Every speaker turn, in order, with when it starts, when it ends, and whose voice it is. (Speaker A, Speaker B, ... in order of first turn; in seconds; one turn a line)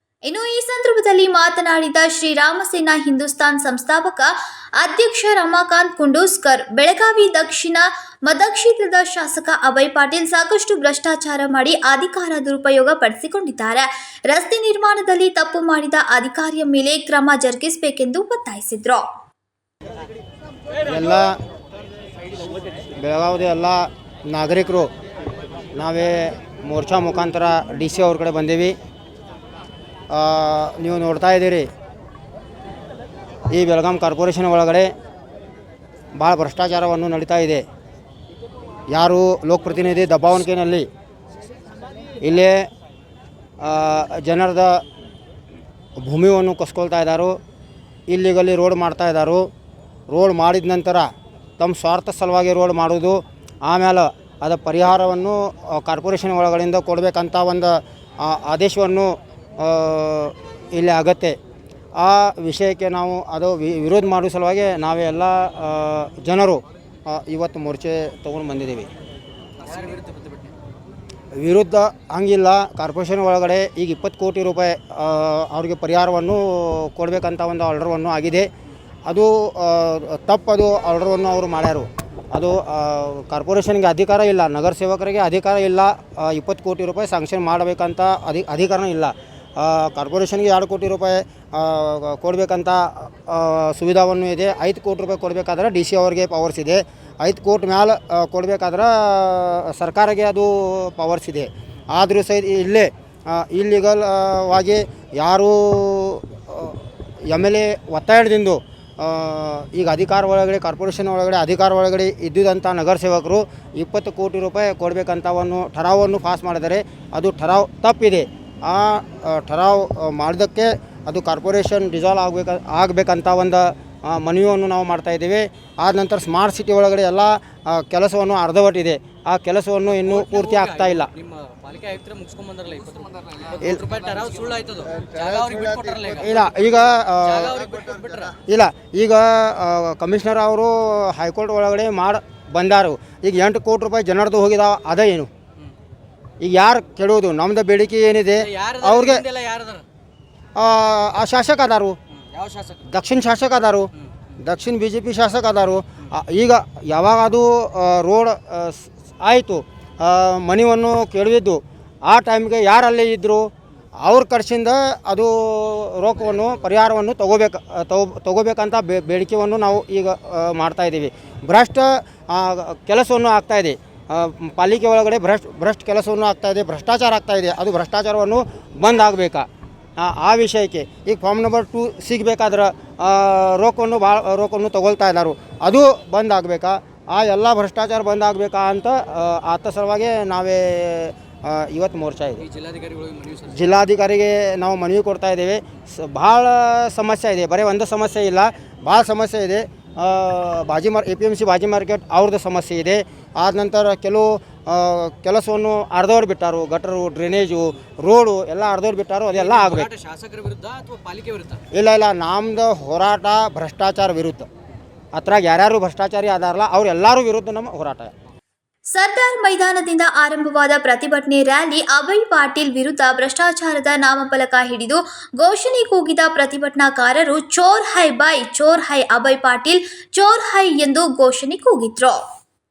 Speaker A: 0.2-19.1
Speaker B: 20.8-21.4
Speaker B: 23.0-24.9
Speaker B: 25.7-28.8
Speaker B: 30.1-31.7
Speaker B: 33.5-34.9
Speaker B: 36.1-37.6
Speaker B: 38.9-40.9
Speaker B: 42.2-42.7
Speaker B: 43.6-44.8
Speaker B: 46.0-47.4
Speaker B: 48.1-49.5
Speaker B: 50.1-61.4
Speaker B: 62.0-68.9
Speaker C: 69.6-70.5
Speaker B: 71.3-78.5
Speaker B: 79.0-131.1
Speaker C: 130.0-136.4
Speaker B: 136.2-137.6
Speaker C: 137.2-138.4
Speaker B: 138.4-145.3
Speaker B: 146.4-149.2
Speaker C: 148.4-149.8
Speaker B: 150.6-152.0
Speaker C: 152.1-152.9
Speaker B: 152.9-179.4
Speaker C: 166.2-166.6
Speaker B: 180.0-192.4
Speaker C: 192.4-193.7
Speaker B: 193.5-209.9
Speaker C: 209.3-211.6
Speaker B: 211.7-214.5
Speaker B: 215.1-218.1
Speaker A: 218.9-232.2